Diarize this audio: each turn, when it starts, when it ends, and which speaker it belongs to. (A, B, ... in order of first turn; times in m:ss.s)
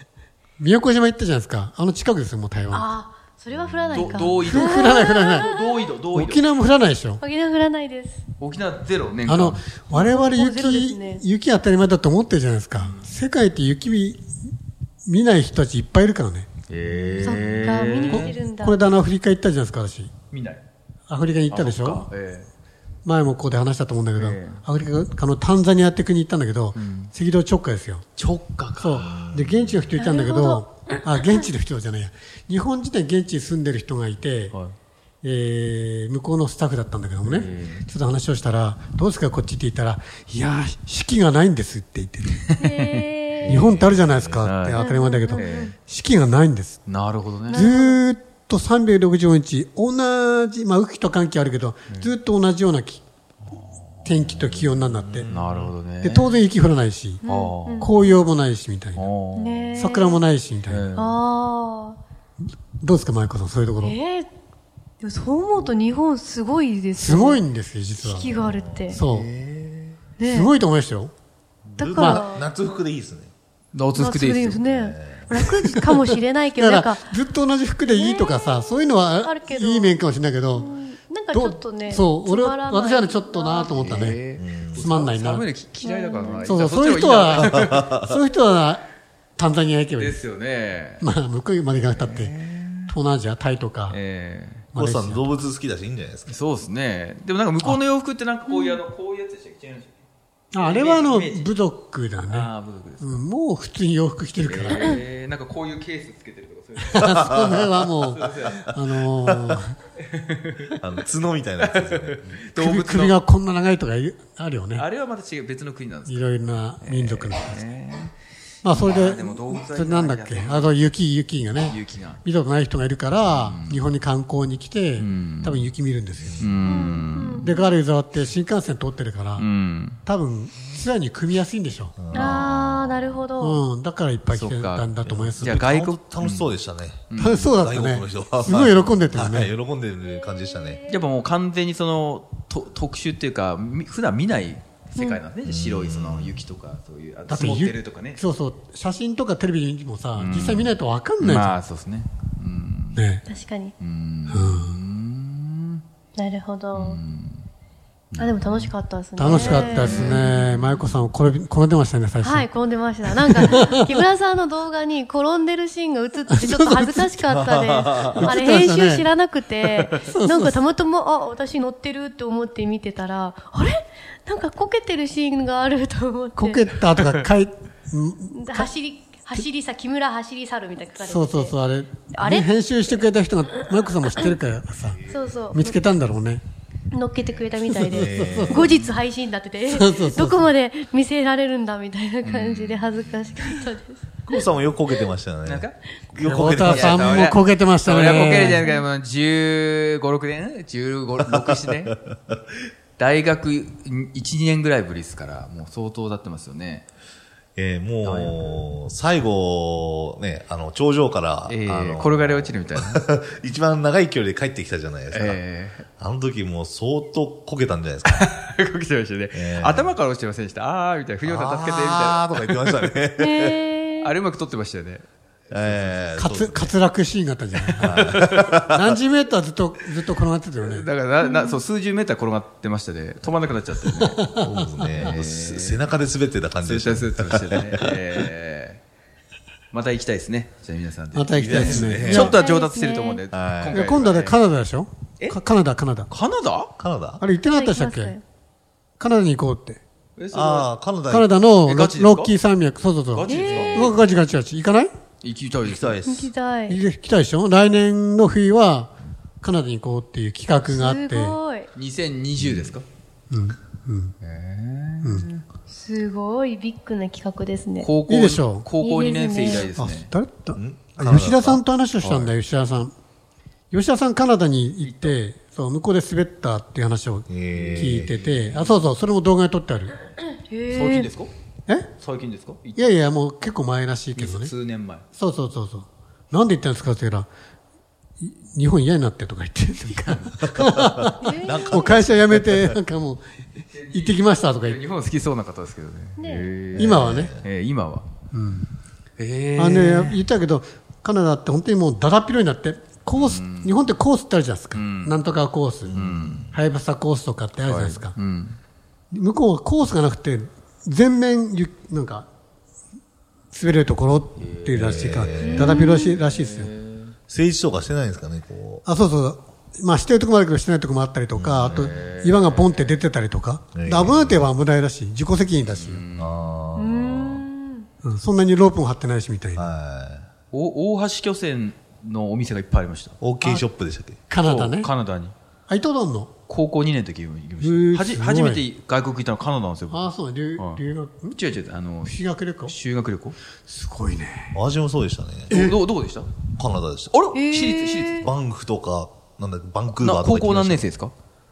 0:00.6-0:02.9 A
0:02.7-0:05.7 B
0:03.5-0:04.1 C
0:03.9-0:06.5 D
0:04.3-0:05.5 A
0:06.1-0:07.2 A
0:07.2-0:08.2 B
0:08.4-0:09.6 D
0:09.2-0:14.3 A
0:09.9-0:11.2 B
0:12.8-0:13.1 D
0:15.0-0:16.5 A
0:16.7-0:18.4 D
0:17.2-0:18.8 B
0:17.3-0:20.1 A
0:20.3-0:20.6 D
0:21.1-0:22.1 A
0:21.5-0:22.5 D
0:23.0-0:28.0 A
0:24.2-0:24.6 D
0:26.8-0:27.1 D
0:28.2-0:29.2 D
0:28.8-0:34.6 A
0:29.0-0:29.9 C
0:30.0-0:30.6 B
0:34.5-0:34.8 D
0:35.2-0:42.4 A
0:37.2-0:37.9 D
0:42.4-0:44.8 D
0:42.6-0:43.6 B
0:43.4-0:44.4 C
0:43.5-0:46.8 A
0:44.8-0:45.7 B
0:45.4-0:45.8 D
0:46.9-0:47.7 D
0:47.5-0:48.0 B
0:47.5-0:53.0 A
0:53.5-0:54.3 D
0:54.0-0:55.3 A
0:54.9-0:55.7 C
0:55.3-0:56.4 D
0:56.0-0:57.2 A
0:57.2-0:57.9 B
0:57.3-0:57.9 D
0:57.8-0:59.1 A
0:59.0-0:59.7 D
0:59.4-1:00.2 B
0:59.8-1:00.9 A
1:00.7-1:01.2 D
1:01.0-1:02.0 B
1:02.8-1:04.0 A
1:03.8-1:04.3 B
1:05.0-1:07.4 B
1:07.0-1:08.3 A
1:08.0-1:09.0 B
1:08.2-1:10.0 C
1:08.9-1:09.3 A
1:10.2-1:10.5 B
1:10.2-1:11.1 A
1:11.8-1:12.5 B
1:11.8-1:13.3 C
1:11.8-1:12.3 A
1:13.7-1:14.6 D
1:13.9-1:17.2 B
1:14.6-1:15.4 C
1:16.6-1:20.7 A
1:17.9-1:18.6 B
1:19.2-1:20.0 B
1:20.5-1:23.9 B
1:21.3-1:24.2 A
1:23.7-1:27.9 D
1:24.4-1:24.9 C
1:24.8-1:25.5 A
1:25.8-1:26.6 B
1:26.4-1:28.8 A
1:27.3-1:28.2 C
1:29.4-1:30.2 A
1:30.0-1:31.0 D
1:31.0-1:32.3 A
1:31.8-1:32.9 D
1:32.9-1:34.0 A
1:33.9-1:34.7 D
1:34.8-1:35.5 A
1:34.8-1:36.4 C
1:36.3-1:39.9 D
1:38.5-1:38.8 B
1:40.5-1:42.5 A
1:40.6-1:41.5 D
1:42.2-1:43.2 D
1:43.0-1:45.0 A
1:44.5-1:47.5 D
1:46.8-1:49.8 A
1:47.0-1:47.7 C
1:48.1-1:48.7 D
1:49.2-1:49.6 C
1:50.0-1:51.1 D
1:50.8-1:52.4 C
1:51.6-1:53.2 D
1:52.6-1:54.8 A
1:54.8-1:56.3 D
1:56.1-1:57.6 A
1:56.8-1:58.1 D
1:58.6-2:06.9 A
1:58.8-2:00.9 D
2:01.6-2:02.2 D
2:03.3-2:03.8 D
2:05.0-2:05.7 D
2:06.2-2:06.6 C
2:06.4-2:07.5 D
2:06.6-2:07.7 B
2:07.4-2:09.5 A
2:09.4-2:10.0 D
2:10.1-2:12.0 A
2:12.0-2:13.1 C
2:12.1-2:13.6 B
2:13.4-2:15.6 A
2:14.3-2:16.6 D
2:15.4-2:20.9 C
2:17.1-2:17.6 D
2:17.2-2:19.5 A
2:20.9-2:28.2 D
2:25.4-2:26.4 C
2:27.3-2:31.6 A
2:30.2-2:33.0 D
2:33.0-2:33.2 A
2:33.3-2:33.7 B
2:33.8-2:35.8 D
2:34.3-2:34.8 A
2:36.2-2:37.0 B
2:36.7-2:37.5 D
2:38.1-2:38.7 D
2:38.2-2:40.2 B
2:39.2-2:42.5 A
2:39.2-2:41.1 D
2:39.4-2:40.1 C
2:42.2-2:56.8 B
2:43.1-2:44.0 A
2:46.3-2:47.2 A
2:47.3-2:48.4 C
2:48.1-2:49.1 A
2:49.7-2:50.0 D
2:50.0-2:50.6 A
2:56.4-2:58.7 A
2:57.0-2:57.3 D
2:58.3-3:01.6 B
3:01.0-3:06.4 A
3:02.1-3:02.5 B
3:05.1-3:05.8 B
3:06.9-3:15.1 B
3:07.6-3:08.6 A
3:07.9-3:08.8 C
3:08.5-3:09.0 D
3:09.7-3:10.5 A
3:12.2-3:13.0 D
3:14.3-3:17.4 C
3:15.4-3:15.8 D
3:16.2-3:18.7 A
3:16.6-3:22.0 D
3:18.1-3:18.8 B
3:21.3-3:22.4 C
3:23.0-3:26.9 D
3:27.6-3:35.4 C
3:28.0-3:28.6 D
3:31.5-3:33.0 D
3:35.1-3:35.8 D
3:36.0-3:38.3 C
3:38.0-3:42.9 D
3:39.3-3:40.0 C
3:41.2-3:43.6 C
3:43.2-3:44.1 B
3:44.0-3:46.3 D
3:45.5-3:46.8 C
3:46.2-3:50.9 A
3:47.6-3:48.5 D
3:47.8-3:49.0 C
3:50.6-3:54.3 D
3:51.2-3:51.6 B
3:54.2-3:55.1 A
3:54.4-3:58.0 C
3:54.9-3:56.0 D
3:56.6-3:58.8 D
3:59.7-4:04.4 D
4:01.1-4:02.3 A
4:01.4-4:02.4 C
4:01.6-4:03.2 B
4:03.3-4:04.0 C
4:03.7-4:06.1 A
4:06.1-4:06.7 D
4:06.8-4:07.2 C
4:07.2-4:08.2 A
4:07.5-4:08.2 B
4:09.0-4:09.8 A
4:10.2-4:10.7 D
4:10.3-4:11.3 C
4:11.1-4:14.9 A
4:11.6-4:12.4 D
4:13.1-4:14.0 D
4:13.3-4:14.1 B
4:13.5-4:13.8 C
4:15.2-4:16.0 D
4:15.6-4:16.3 C
4:16.0-4:16.8 B
4:16.7-4:21.4 A
4:20.7-4:21.7 B
4:21.8-4:22.8 D
4:22.4-4:22.8 C
4:23.3-4:24.2 A
4:24.2-4:25.4 D
4:25.0-4:25.3 A
4:25.7-4:27.9 B
4:27.8-4:30.1 D
4:28.1-4:28.7 A
4:28.8-4:29.7 B
4:29.7-4:32.9 A
4:30.6-4:32.3 C
4:33.7-4:40.0 A
4:34.8-4:35.2 D
4:37.3-4:38.2 C
4:37.5-4:38.8 D
4:40.3-4:41.1 B
4:40.7-4:41.3 D
4:42.0-4:42.9 D
4:42.8-4:44.5 A
4:44.1-4:45.0 D
4:45.2-4:47.3 A
4:48.2-4:53.2 A
4:50.5-4:52.8 C
4:51.2-4:51.9 B
4:53.7-4:58.1 D
4:53.9-4:54.8 A
4:56.2-4:56.5 B
4:56.8-4:57.5 C
4:56.8-4:57.3 A
4:58.3-4:58.7 A
4:59.2-5:00.2 D
4:59.6-5:08.2 A
5:03.1-5:03.8 D
5:04.7-5:05.2 D
5:05.8-5:06.5 C
5:06.0-5:06.5 D
5:07.7-5:08.6 D
5:09.1-5:12.3 A
5:13.5-5:16.7 A
5:14.4-5:17.1 D
5:14.8-5:15.7 C
5:15.4-5:16.2 B
5:17.3-5:18.8 C
5:18.8-5:26.0 A
5:21.4-5:21.9 C
5:21.7-5:23.0 D
5:23.7-5:24.5 C
5:25.6-5:26.4 D
5:26.2-5:27.4 C
5:26.8-5:27.9 B
5:28.0-5:29.7 A
5:29.6-5:30.3 C
5:30.5-5:33.2 D
5:33.2-5:34.2 C
5:34.3-5:34.9 A
5:34.4-5:35.3 D
5:35.7-5:36.3 A
5:36.5-5:43.4 D
5:37.6-5:38.6 A
5:39.9-5:41.4 A
5:42.0-5:42.8 A
5:43.7-5:44.6 A
5:44.5-5:45.6 C
5:45.5-5:45.8 A
5:45.5-5:46.4 D
5:46.5-5:47.2 C
5:47.1-5:48.3 D
5:47.3-5:48.3 B
5:48.1-5:50.9 C
5:50.0-5:51.1 D